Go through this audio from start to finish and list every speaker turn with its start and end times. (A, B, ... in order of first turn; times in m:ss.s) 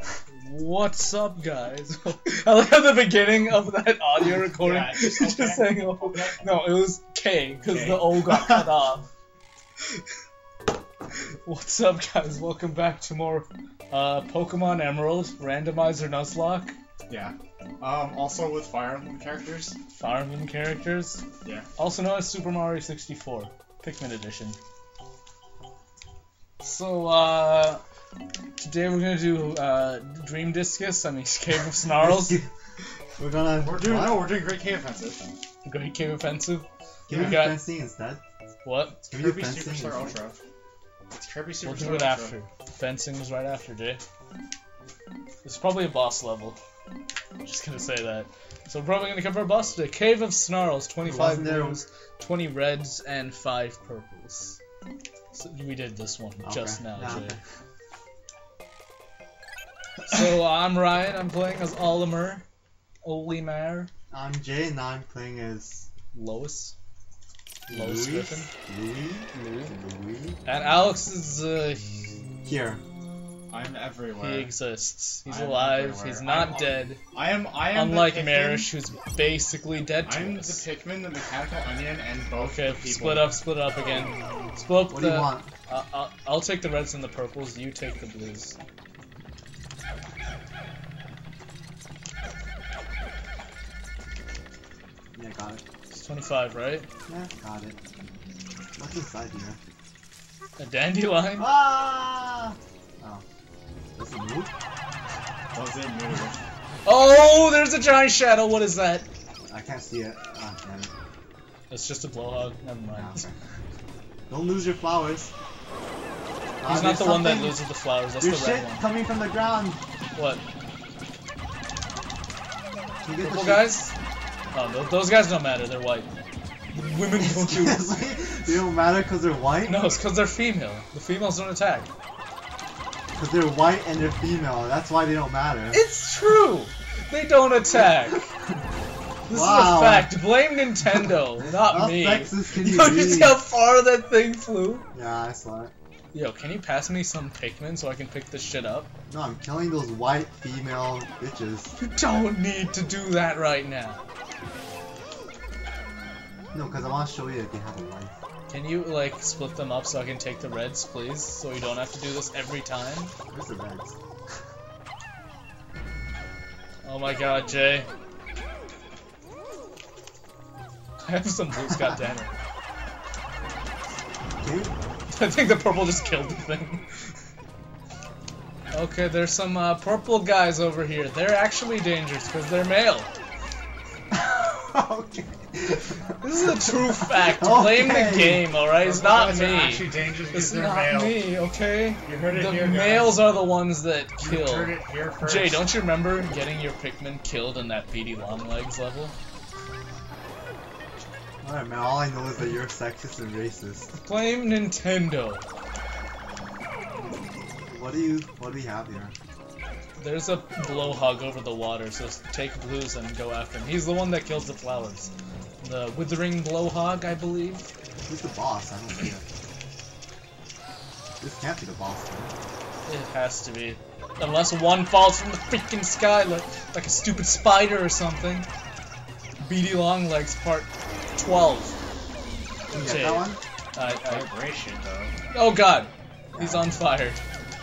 0:00.4-0:09.1 A
0:04.6-0:06.5 B
0:07.7-0:08.7 B
0:11.4-0:16.7 A
0:17.1-0:19.8 B
0:19.9-0:21.2 A
0:21.8-0:24.6 A
0:26.6-0:27.8 A
0:28.6-0:32.4 A
0:32.0-0:32.5 C
0:33.2-0:34.3 C
0:33.6-0:35.3 B
0:35.6-0:37.6 A
0:37.1-0:38.2 C
0:38.6-0:39.0 A
0:39.1-0:40.1 C
0:39.1-0:40.4 B
0:41.1-0:42.4 B
0:41.6-0:44.0 A
0:45.4-0:46.6 A
0:47.4-0:54.6 A
0:51.0-0:51.8 C
0:55.3-0:57.4 A
0:56.4-0:57.4 C
1:00.1-1:02.4 A
1:03.0-1:03.9 A
1:04.1-1:05.9 C
1:06.1-1:06.7 A
1:07.7-1:10.4 C
1:07.7-1:08.5 A
1:09.3-1:09.7 A
1:10.4-1:12.0 A
1:12.4-1:12.8 C
1:13.5-1:14.5 B
1:14.2-1:17.0 A
1:15.2-1:18.7 B
1:17.7-1:20.6 A
1:20.0-1:23.4 B
1:22.4-1:28.6 A
1:24.9-1:25.5 C
1:35.1-1:35.6 C
1:35.9-1:36.8 A
1:37.1-1:37.8 C
1:38.8-1:39.6 C
1:40.6-1:41.5 A
1:41.4-1:43.2 C
1:44.0-1:44.5 C
1:45.5-1:46.4 B
1:46.8-1:49.0 A
1:49.5-1:50.9 C
1:51.7-1:53.2 A
1:52.9-1:53.4 C
1:54.3-1:55.3 C
1:56.6-1:57.6 C
1:56.7-1:58.9 A
1:58.2-1:59.8 C
2:00.2-2:00.4 A
2:03.0-2:03.7 C
2:03.2-2:03.9 A
2:04.5-2:06.1 A
2:06.7-2:07.9 A
2:07.2-2:09.9 C
2:09.7-2:11.9 A
2:13.1-2:15.8 C
2:15.7-2:18.3 A
2:19.3-2:24.8 A
2:19.3-2:20.1 C
2:21.5-2:23.4 C
2:24.9-2:25.7 C
2:26.1-2:28.9 A
2:29.1-2:31.7 C
2:31.8-2:34.0 A
2:36.5-2:38.1 C
2:38.5-2:43.1 A
2:43.3-2:43.9 C
2:46.8-2:47.9 A
2:51.0-2:52.3 A
2:54.4-2:54.7 C
2:55.1-2:56.8 A
2:58.7-3:03.1 A
3:04.1-3:06.1 C
3:06.2-3:19.1 A
3:07.0-3:08.5 C
3:08.7-3:11.2 B
3:12.0-3:13.3 B
3:14.2-3:15.7 B
3:21.4-3:23.9 C
3:24.0-3:25.4 A
3:27.7-3:29.1 C
3:30.0-3:35.1 A
3:35.6-3:37.7 A
3:38.1-3:39.2 C
3:41.2-3:42.3 C
3:42.9-3:48.4 A
3:49.4-3:51.8 A
3:52.7-3:53.4 C
3:52.7-3:54.3 A
3:53.8-3:55.1 B
3:55.3-3:57.2 A
3:56.3-3:56.8 C